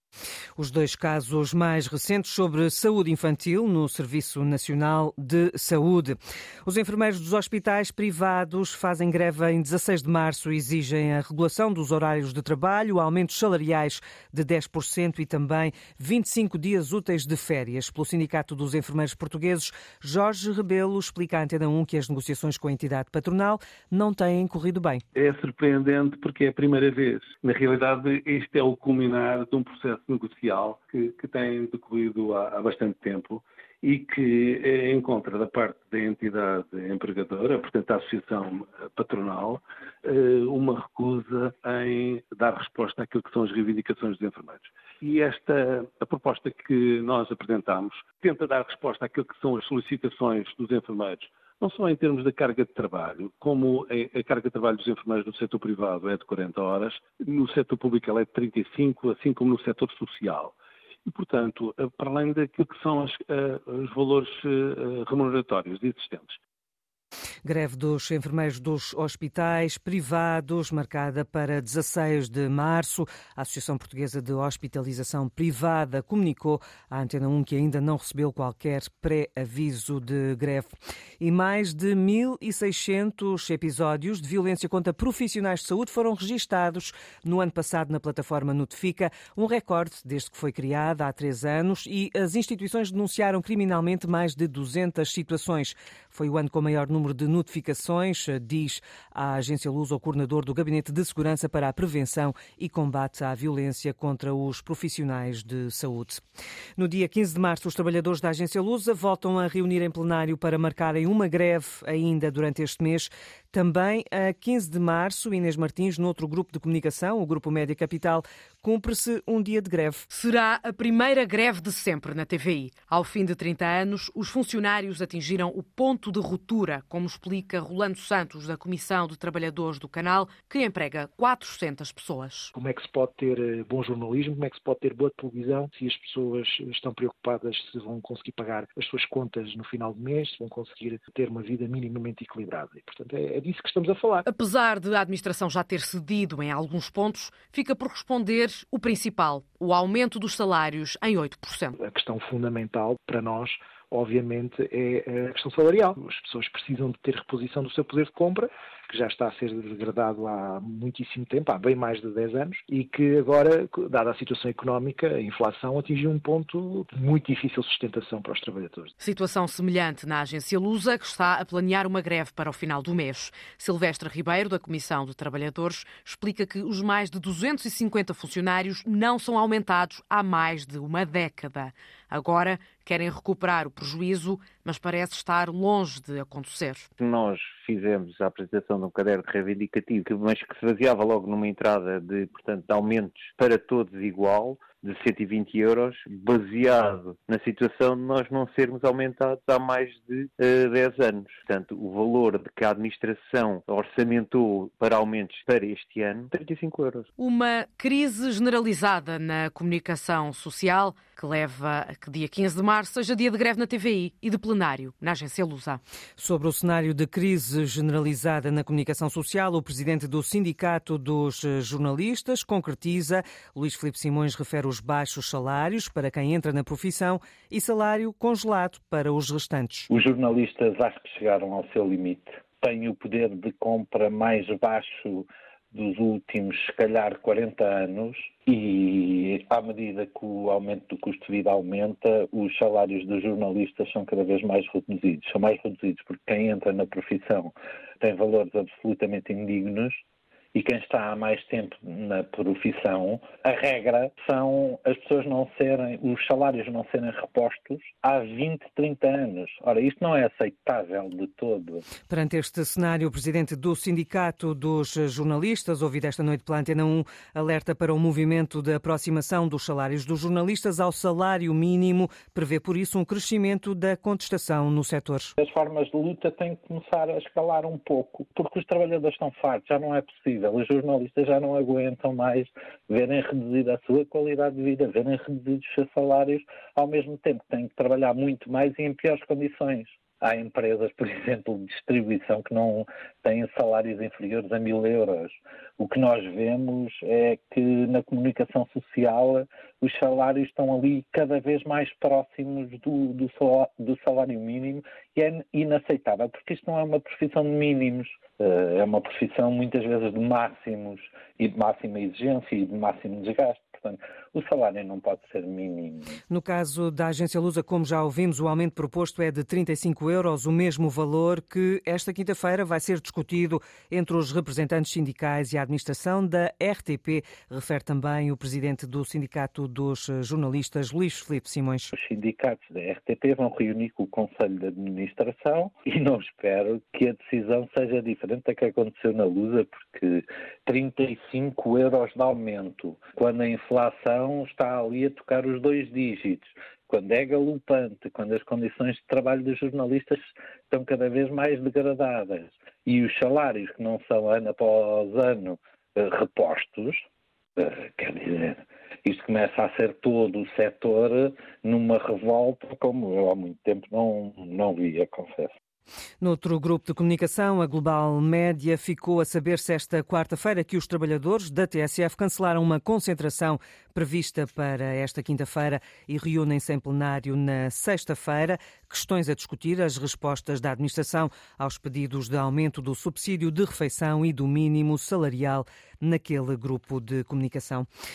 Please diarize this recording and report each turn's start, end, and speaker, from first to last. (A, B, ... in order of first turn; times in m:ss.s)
0:00.6-0:25.0 A
0:25.1-1:00.5 B
1:01.1-1:06.4 B
1:07.4-1:46.2 A
1:46.8-2:00.0 A
2:00.1-2:12.5 C
2:12.5-2:24.2 D
2:24.2-2:31.8 C
2:31.8-2:48.9 D
2:49.0-3:06.9 C
3:07.0-3:27.1 E
3:27.2-3:35.8 C
3:36.2-3:49.9 A
3:49.9-4:10.0 F
4:10.5-4:21.8 F
4:22.1-4:35.3 A
4:35.4-5:16.1 F
5:16.3-5:31.9 A
5:31.9-5:57.0 F
5:57.6-6:05.5 F
6:06.2-6:27.9 A